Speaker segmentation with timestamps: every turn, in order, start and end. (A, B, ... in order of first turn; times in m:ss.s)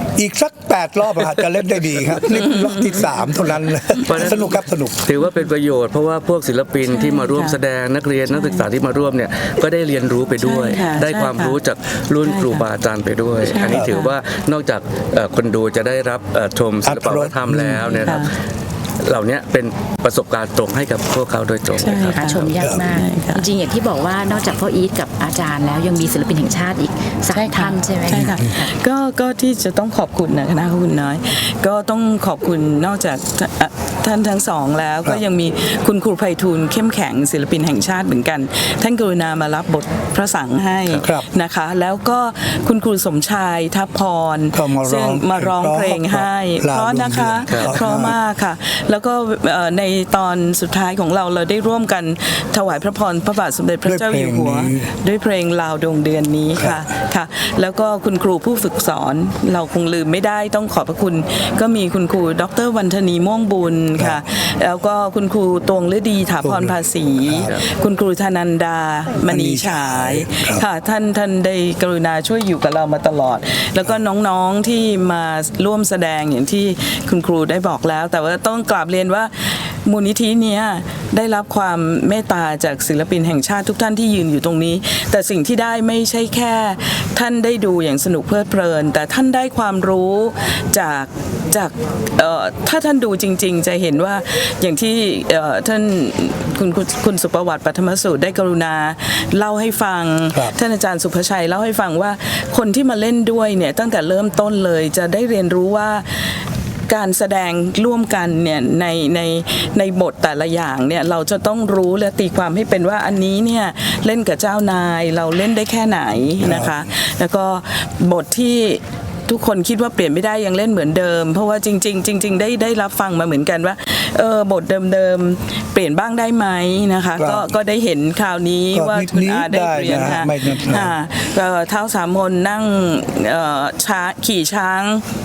0:00.2-0:05.0 A
0:04.0-0:18.3 B
0:06.9-0:07.6 C
0:08.3-0:08.7 C
0:10.4-0:11.6 C
0:12.2-0:12.6 C
0:13.4-0:14.1 C
0:13.7-0:13.9 A
0:16.8-0:18.0 A
0:18.0-0:18.3 C
0:19.0-0:22.5 B
0:21.8-0:23.5 C
0:22.1-0:28.6 D
0:22.6-0:22.9 A
0:27.3-1:46.3 C
0:28.1-0:28.5 A
0:41.0-0:41.3 A
0:44.5-0:48.2 A
0:47.5-0:47.8 B
0:53.8-0:54.9 A
1:06.4-1:07.5 A
1:09.2-1:10.6 A
1:46.9-2:15.0 C
1:56.4-1:56.8 A
2:07.2-2:07.5 A
2:08.7-2:11.0 A